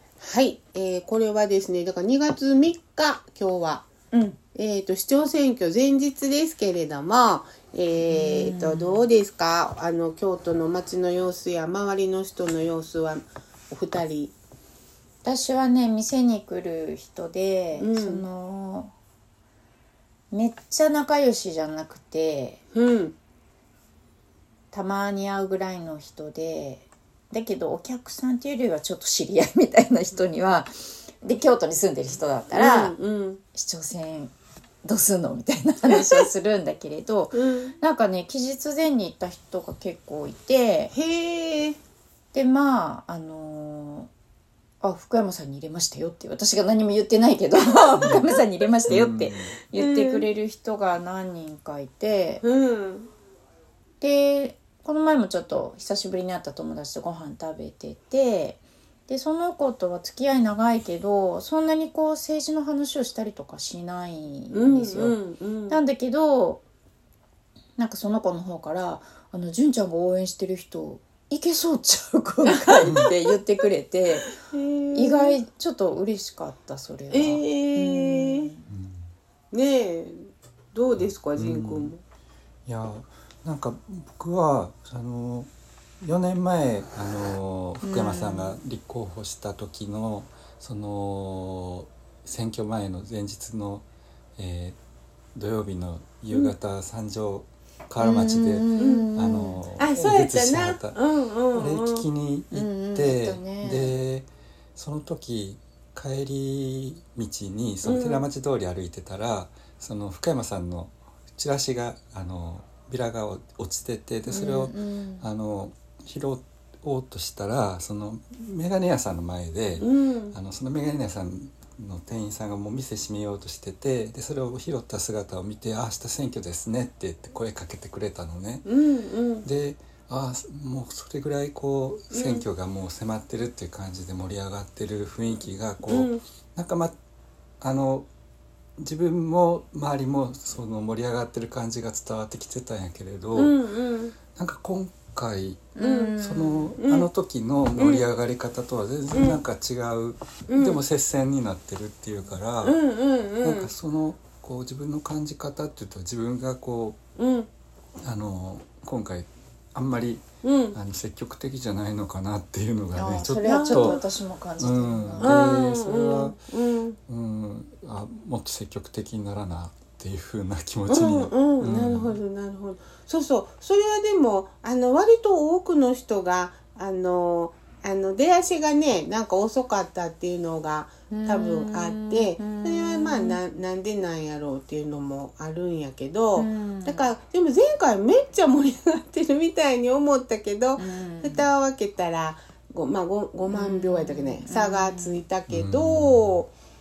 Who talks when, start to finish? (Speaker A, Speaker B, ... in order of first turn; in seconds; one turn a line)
Speaker A: 0.2-3.9
Speaker B: 4.1-4.4
Speaker A: 4.5-14.3
Speaker B: 8.0-9.0
Speaker B: 15.2-18.9
Speaker A: 17.8-18.2
Speaker B: 20.3-22.6
Speaker A: 22.7-23.1
Speaker B: 24.7-32.9
Speaker A: 32.5-33.4
Speaker B: 33.5-34.3
Speaker B: 34.8-40.9
Speaker A: 35.9-36.2
Speaker A: 37.3-37.7
Speaker A: 40.9-41.8
Speaker B: 42.3-44.1
Speaker B: 44.8-52.4
Speaker A: 47.8-48.2
Speaker C: 48.9-49.5
Speaker A: 49.8-50.3
Speaker A: 52.4-53.1
Speaker B: 54.0-65.2
Speaker A: 64.5-65.8
Speaker B: 65.7-66.6
Speaker B: 67.8-74.3
Speaker A: 72.5-73.3
Speaker C: 72.8-73.1
Speaker A: 74.4-75.4
Speaker B: 74.9-78.7
Speaker A: 77.1-78.5
Speaker C: 78.7-79.1
Speaker A: 79.5-82.0
Speaker C: 81.0-81.9
Speaker C: 82.7-85.5
Speaker C: 86.0-93.8
Speaker B: 87.8-88.6
Speaker C: 94.4-94.8
Speaker C: 95.3-101.0
Speaker B: 98.0-100.1
Speaker A: 98.7-99.1
Speaker A: 99.8-102.0
Speaker C: 101.5-128.7
Speaker B: 102.5-103.9
Speaker A: 107.8-108.2
Speaker B: 114.3-115.2
Speaker A: 119.8-120.3
Speaker A: 128.6-129.4
Speaker C: 129.4-136.9
Speaker A: 132.1-132.4
Speaker A: 135.9-136.2
Speaker C: 137.6-138.1
Speaker C: 138.8-143.6
Speaker A: 143.3-144.1
Speaker C: 144.3-152.8
Speaker B: 145.7-146.7
Speaker A: 145.8-146.2
Speaker A: 146.8-147.1
Speaker A: 147.8-148.1
Speaker A: 149.1-149.4
Speaker A: 150.5-150.8
Speaker A: 152.6-153.7
Speaker C: 153.4-157.0
Speaker A: 157.2-157.5
Speaker C: 158.0-164.0
Speaker A: 160.4-160.8
Speaker B: 162.9-165.3
Speaker A: 163.4-164.0
Speaker C: 164.6-166.4
Speaker A: 165.2-167.0
Speaker C: 167.1-172.2
Speaker A: 170.9-196.5
Speaker B: 181.1-183.4
Speaker B: 186.3-187.1
Speaker B: 190.8-191.5
Speaker B: 193.5-195.2
Speaker C: 195.5-196.3